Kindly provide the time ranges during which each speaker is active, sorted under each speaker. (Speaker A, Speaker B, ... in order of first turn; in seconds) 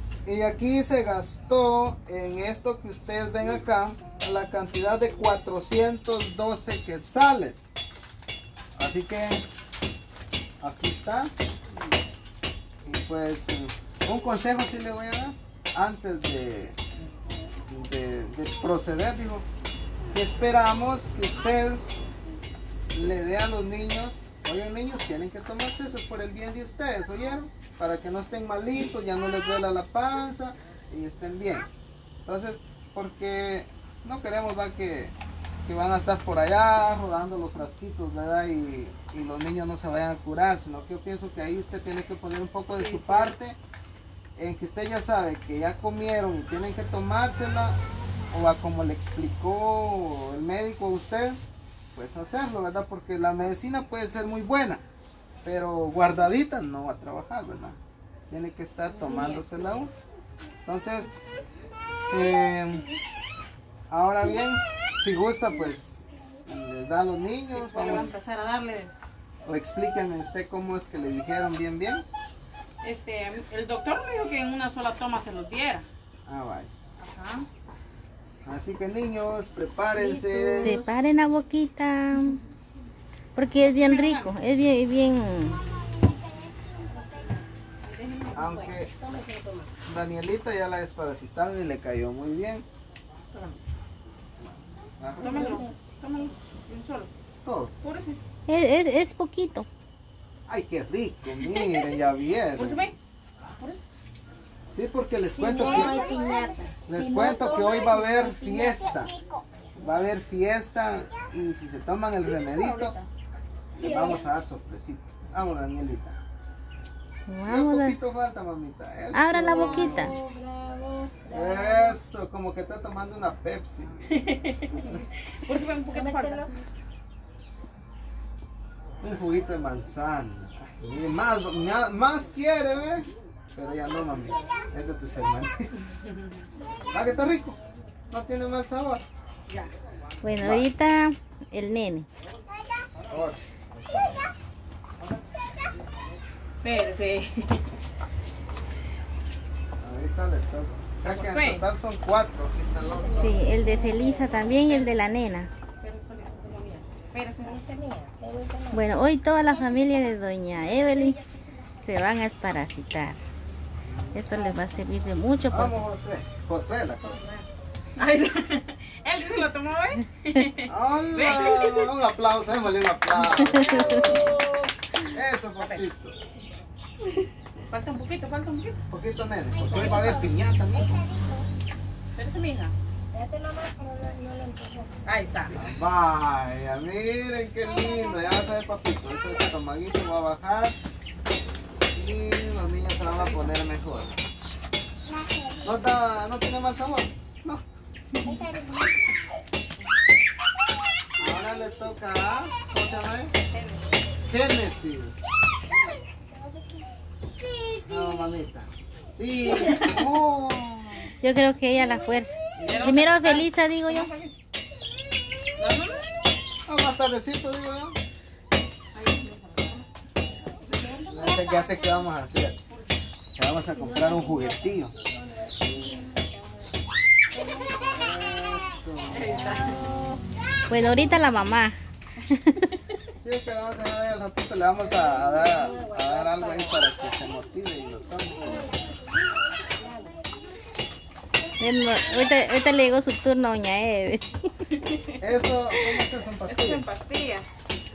Speaker A: 0.3-7.7, 8.8-9.4, 10.6-11.3, 12.8-16.8, 17.7-19.4, 20.1-21.8, 22.9-31.7, 32.3-35.1, 35.7-43.6, 44.4-47.8, 48.3-51.4, 52.0-54.8, 55.4-57.8, 58.3-59.9, 60.6-61.1, 62.1-62.9, 63.9-68.1, 69.5-72.0, 76.3-76.7, 78.5-80.8, 88.3-88.9, 89.8-92.7, 94.4-95.7, 97.4-97.7, 100.5-102.9, 104.7-106.1, 106.9-109.2, 109.8-112.9, 113.8-116.2, 117.5-120.2, 121.3-123.9, 129.0-135.7, 136.9-137.6, 138.1-139.0, 140.4-140.7, 143.1-144.3, 149.8-153.4, 163.8-164.7, 165.5-167.2, 170.7-174.2, 175.1-176.2, 178.9-181.1, 185.5-190.8, 191.9-194.2, 195.6-197.6, 201.2-203.3, 204.3-205.3, 207.8-211.1, 212.6-212.9, 216.7-218.0, 221.1-222.6, 223.3-224.9, 227.9-229.4, 233.2-238.7, 245.2-246.9
Speaker B: 42.7-43.4, 58.9-59.9, 67.5-69.0, 72.8-75.9, 77.0-77.5, 83.7-84.3, 87.8-88.7, 93.3-93.6, 95.2-97.1, 97.8-98.2, 102.6-103.0, 112.4-113.1, 124.1-126.5, 139.5-139.7, 146.6-147.7, 151.0-151.6, 154.5-154.9, 155.8-157.6, 168.0-171.9, 177.7-178.8, 182.2-182.7, 185.1-185.6, 193.0-193.5, 203.5-203.8, 209.6-210.0, 212.6-214.4, 215.6-216.0, 218.9-219.9, 220.6-221.5, 222.7-223.0, 229.1-229.9, 244.7-245.2, 246.5-247.5
Speaker C: 79.9-80.8, 88.6-89.7, 95.2-95.7, 105.4-108.8, 113.8-114.2, 119.5-122.0, 125.9-126.6, 152.9-154.5, 157.4-158.8, 167.0-167.5, 173.6-174.7, 179.6-180.3, 183.1-185.0, 221.1-222.1, 223.7-226.8, 227.3-227.8, 229.3-230.2, 234.8-236.9, 238.4-240.3
Speaker D: 80.6-82.4, 83.3-85.6, 98.5-99.7, 117.3-118.0, 119.1-120.2, 140.2-142.1, 153.1-155.5, 158.7-161.2, 161.8-163.2, 164.1-165.8, 173.5-174.1, 211.2-214.1, 230.7-232.7, 241.6-244.3